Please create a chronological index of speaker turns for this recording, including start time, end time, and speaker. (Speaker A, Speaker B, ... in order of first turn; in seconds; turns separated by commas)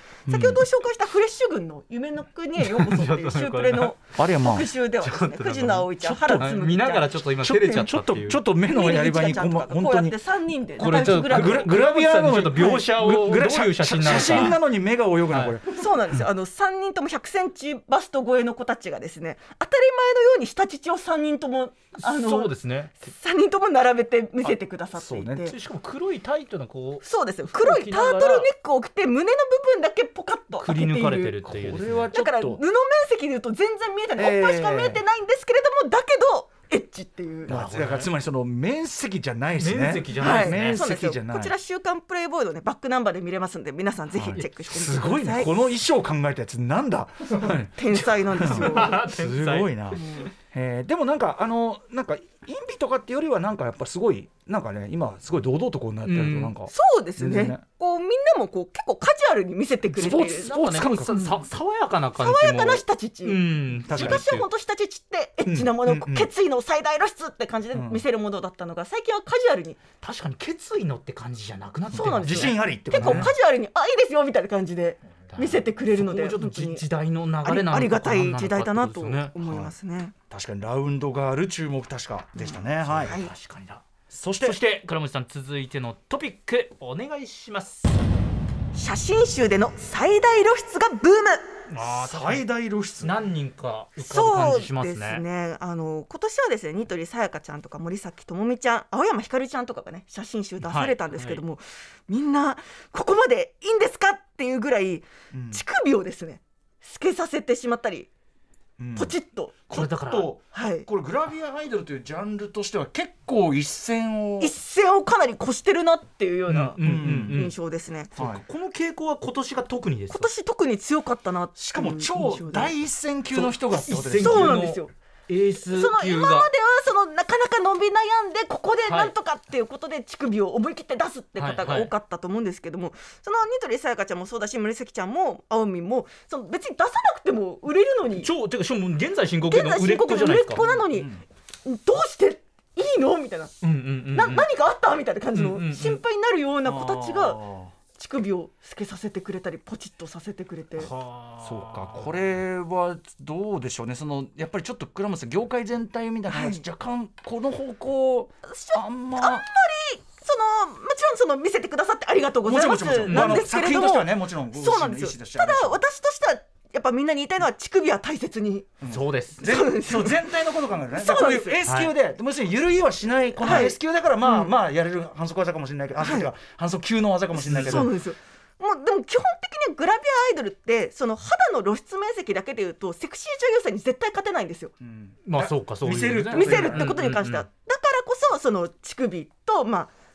Speaker A: 0.3-0.6, Speaker B: 0.3-7.2, Speaker C: 2.6-4.0, Speaker A: 4.2-4.7, Speaker C: 5.0-8.4, Speaker A: 6.2-6.5, Speaker A: 7.4-10.2, Speaker B: 8.7-11.9, Speaker C: 10.8-14.6, Speaker A: 10.8-15.9, Speaker B: 12.6-12.8, Speaker B: 14.2-14.6, Speaker C: 15.3-15.6, Speaker B: 15.7-25.5, Speaker C: 22.0-22.9, Speaker A: 24.5-25.5, Speaker C: 25.4-28.5, Speaker B: 27.0-31.4, Speaker C: 30.6-32.1, Speaker A: 31.4-32.6, Speaker B: 32.1-37.6, Speaker A: 34.2-35.0, Speaker A: 37.5-41.5, Speaker C: 37.5-38.1, Speaker C: 39.6-40.8, Speaker B: 40.2-45.7, Speaker A: 44.1-57.6, Speaker C: 47.4-50.0, Speaker B: 47.8-49.0, Speaker B: 50.0-50.3, Speaker C: 56.0-56.5, Speaker B: 56.7-60.5, Speaker A: 60.0-61.3, Speaker C: 60.0-64.5, Speaker B: 61.1-61.4, Speaker B: 62.2-69.8, Speaker A: 63.9-64.2, Speaker A: 65.5-66.3, Speaker A: 67.7-68.0, Speaker C: 70.0-73.3, Speaker B: 71.9-76.8, Speaker A: 72.0-73.3, Speaker C: 75.3-79.3, Speaker B: 77.4-80.1, Speaker A: 79.4-79.7, Speaker A: 80.3-83.2, Speaker B: 82.4-83.3, Speaker C: 82.8-83.8, Speaker A: 84.1-84.6, Speaker C: 84.4-88.0, Speaker B: 88.7-91.6, Speaker C: 91.7-92.5, Speaker A: 91.9-93.2, Speaker C: 93.0-95.2, Speaker B: 94.0-108.1, Speaker C: 100.6-101.4, Speaker A: 105.3-105.6, Speaker A: 108.8-109.1, Speaker B: 109.0-109.6, Speaker A: 109.7-114.5, Speaker C: 109.7-110.3, Speaker B: 110.5-110.9, Speaker B: 114.4-118.1, Speaker C: 116.5-117.5, Speaker A: 116.8-117.5, Speaker C: 118.2-120.3, Speaker A: 118.2-118.4, Speaker B: 120.1-122.7, Speaker A: 121.6-124.6, Speaker C: 123.3-126.5, Speaker B: 123.8-124.9, Speaker B: 125.7-138.3, Speaker C: 128.9-129.1, Speaker C: 131.4-131.9, Speaker C: 138.2-140.7, Speaker B: 139.5-141.1, Speaker A: 140.6-141.2, Speaker B: 141.7-143.5, Speaker C: 143.6-144.5, Speaker B: 144.1-147.4, Speaker C: 145.3-146.0, Speaker A: 146.7-147.7, Speaker B: 147.9-150.9, Speaker C: 150.8-152.1, Speaker A: 151.4-159.5, Speaker B: 156.3-156.6, Speaker B: 158.4-168.7, Speaker A: 162.4-165.8, Speaker C: 163.1-163.5, Speaker A: 168.8-177.9, Speaker C: 168.9-169.4, Speaker B: 169.4-170.3, Speaker B: 170.9-171.6, Speaker C: 171.7-171.9, Speaker B: 173.4-174.5, Speaker B: 176.0-176.3, Speaker B: 177.4-184.7, Speaker A: 184.8-186.9, Speaker C: 185.3-187.4, Speaker B: 186.3-189.9